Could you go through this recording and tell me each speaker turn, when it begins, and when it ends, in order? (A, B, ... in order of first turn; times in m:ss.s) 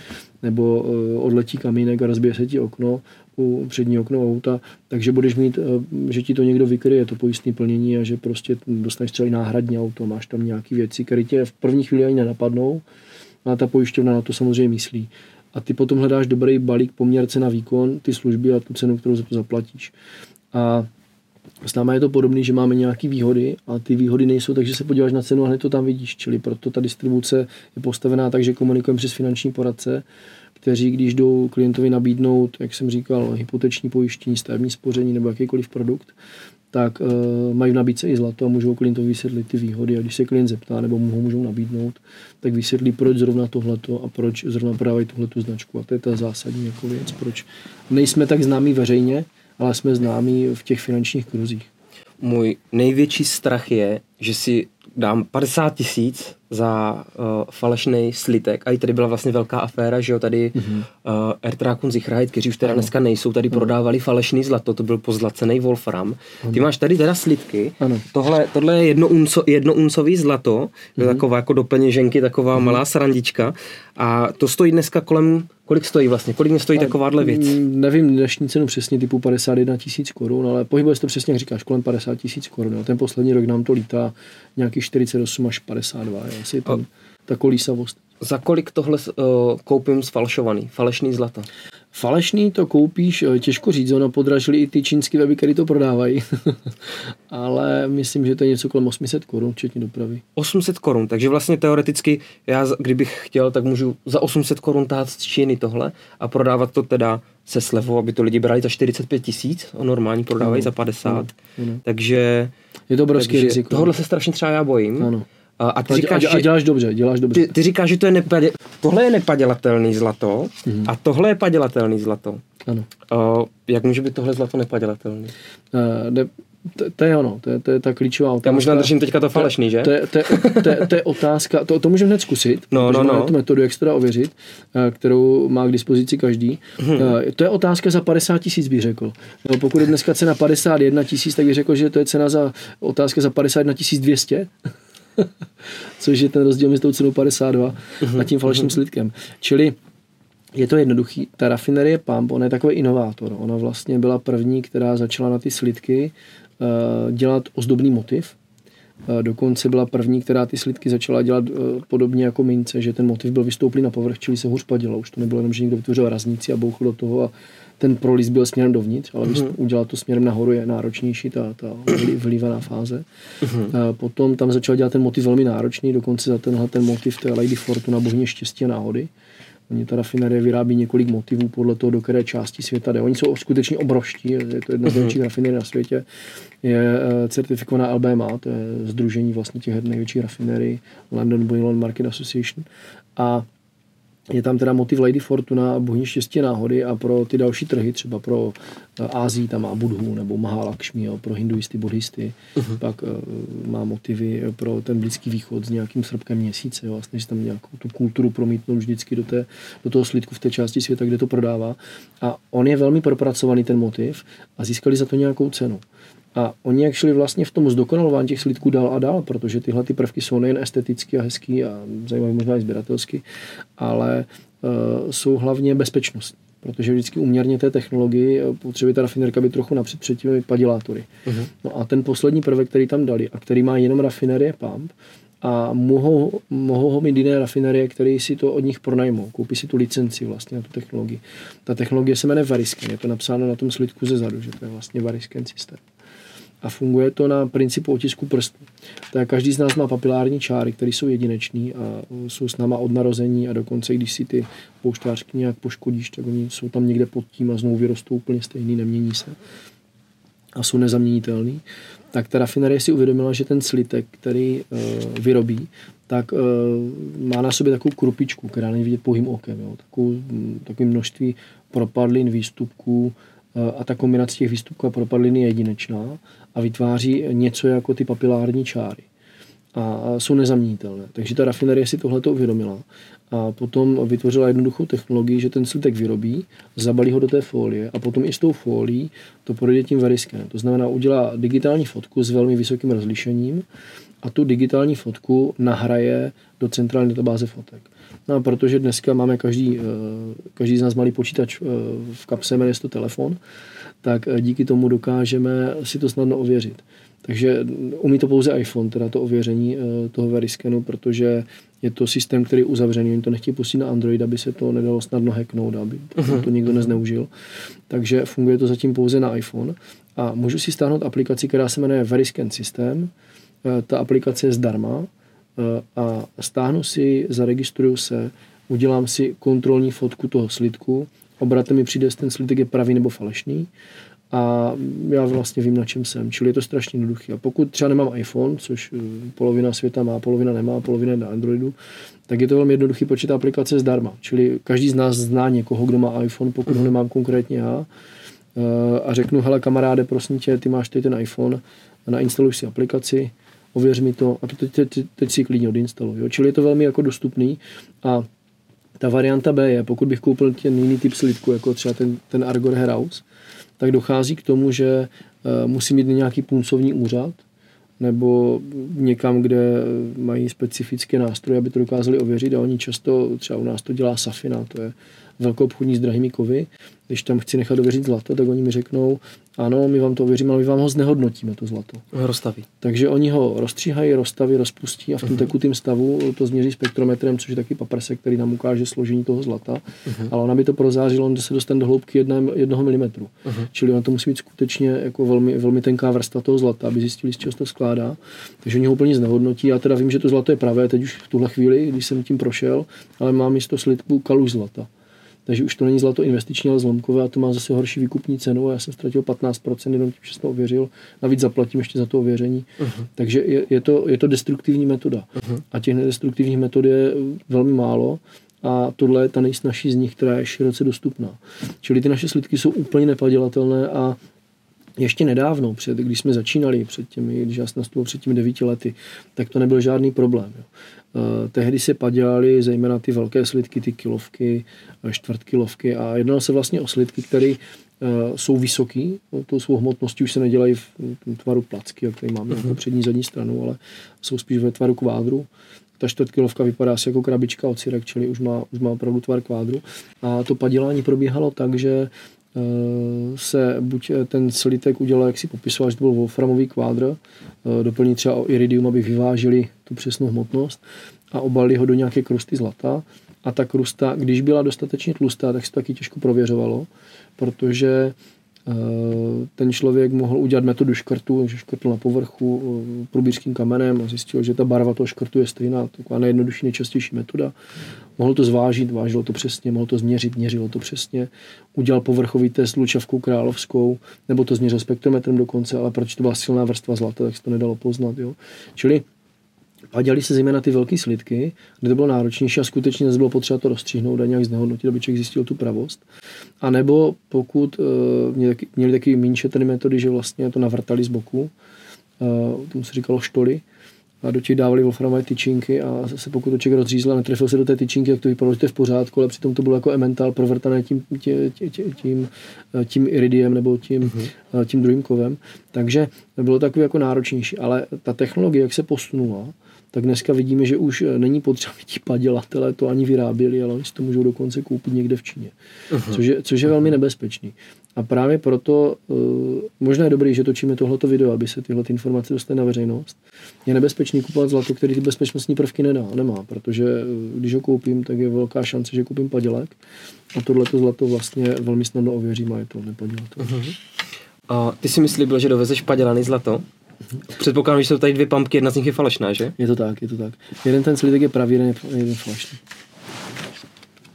0:00.4-0:12.8 A
0:13.4-0:19.9 A
0:20.5-0:20.9 A
0:21.6-0:30.0 A
0:30.6-0:36.2 A
0:36.7-0:51.7 A
0:52.2-1:17.6 B
1:00.6-1:00.9 A
1:11.0-1:11.2 A
1:16.8-1:28.0 A
1:28.2-1:31.5 B
1:31.9-1:36.7 A
1:37.3-1:40.2 A
1:40.4-1:51.3 B
1:50.4-1:51.8 A
1:51.8-1:52.5 B
1:52.9-1:53.9 A
1:53.2-1:56.5 B
1:55.0-1:55.3 A
1:55.9-1:57.5 A
1:57.3-2:02.4 B
2:00.7-2:00.9 A
2:03.1-2:05.3 B
2:05.7-2:24.5 A
2:08.4-2:10.9 B
2:12.7-2:13.4 B
2:16.8-2:17.1 B
2:25.2-2:29.8 A
2:30.6-2:38.4 A
2:39.1-2:53.0 A
2:49.3-2:49.5 B
2:53.4-2:53.7 B
2:53.6-2:59.1 A
2:59.7-3:06.0 A
3:04.9-3:05.2 B
3:06.6-3:13.5 A
3:14.3-3:35.8 A
3:36.3-3:43.2 A
3:43.8-4:05.8 A
4:06.6-4:19.4 A
4:20.6-4:39.0 A
4:39.8-4:53.6 A
4:54.2-5:03.4 A
5:04.0-5:17.3 A
5:16.2-5:16.5 B
5:17.9-5:23.1 A
5:23.6-5:33.7 A
5:34.3-5:41.8 A
5:42.3-5:47.9 A
5:48.6-5:58.3 A
5:59.0-6:03.2 A
6:03.8-6:07.4 A
6:08.0-6:22.1 A
6:22.1-6:22.7 B
6:22.8-6:44.9 A
6:45.5-7:04.2 A
7:05.0-7:40.8 A
7:41.3-7:48.2 A
7:48.7-7:57.5 A
7:58.2-8:09.0 A
8:09.9-8:16.0 A
8:16.6-8:21.5 A
8:22.2-8:23.6 A
8:24.2-8:59.8 A
8:45.9-8:46.2 B
9:00.3-9:03.7 A
9:03.4-9:03.8 B
9:04.5-9:06.6 B
9:07.3-9:09.6 B
9:09.6-9:12.6 A